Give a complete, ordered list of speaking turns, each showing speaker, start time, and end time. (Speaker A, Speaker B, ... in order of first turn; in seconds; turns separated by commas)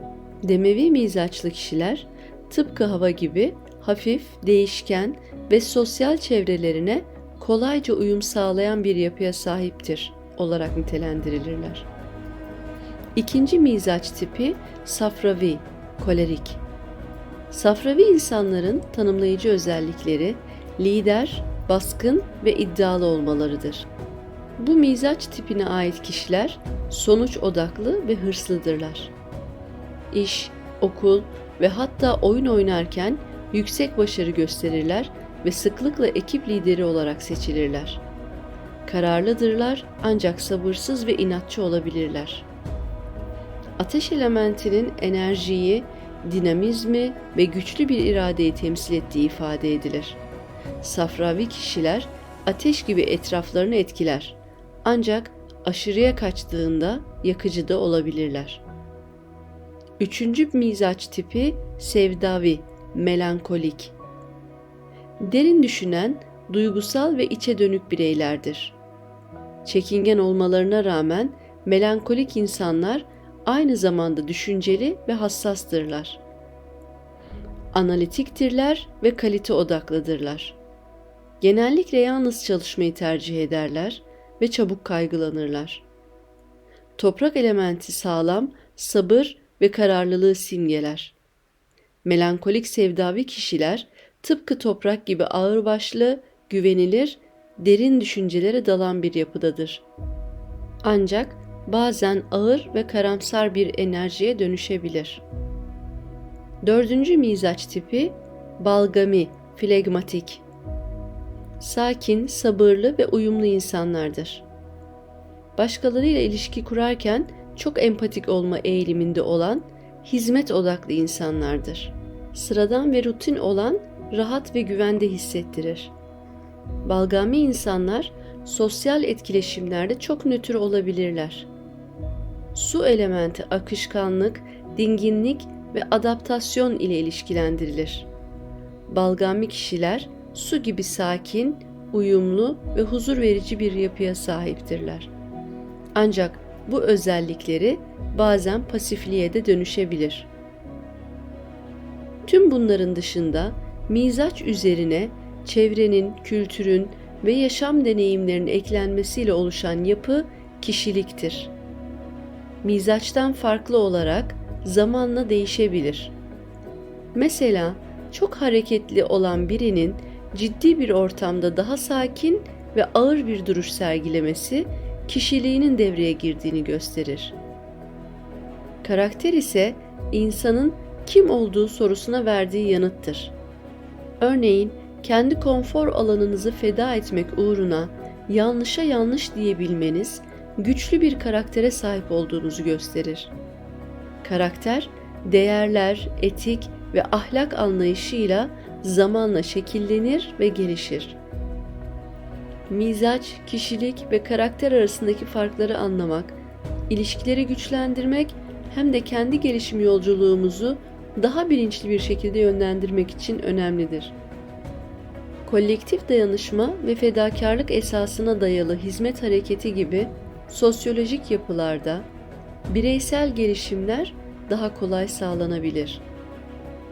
Speaker A: 0.4-11.9, Speaker A: 13.2-16.6, Speaker A: 17.5-23.9, Speaker A: 24.6-29.1, Speaker A: 30.1-38.0, Speaker A: 38.9-42.5, Speaker A: 43.8-50.2, Speaker A: 50.8-58.6, Speaker A: 60.0-64.0, Speaker A: 65.2-68.8, Speaker A: 69.7-76.2, Speaker A: 77.7-80.6, Speaker A: 81.4-85.9, Speaker A: 87.0-91.2, Speaker A: 92.0-99.9, Speaker A: 100.8-105.2, Speaker A: 106.6-110.4, Speaker A: 111.6-114.5, Speaker A: 115.6-125.9, Speaker A: 126.8-131.5, Speaker A: 132.5-138.1, Speaker A: 138.9-145.1, Speaker A: 145.9-150.3, Speaker A: 152.2-161.5, Speaker A: 162.6-166.2, Speaker A: 167.2-177.4, Speaker A: 178.8-183.3, Speaker A: 184.2-193.3, Speaker A: 194.2-201.2, Speaker A: 202.7-206.4, Speaker A: 206.9-214.2, Speaker A: 215.4-222.1, Speaker A: 222.7-226.0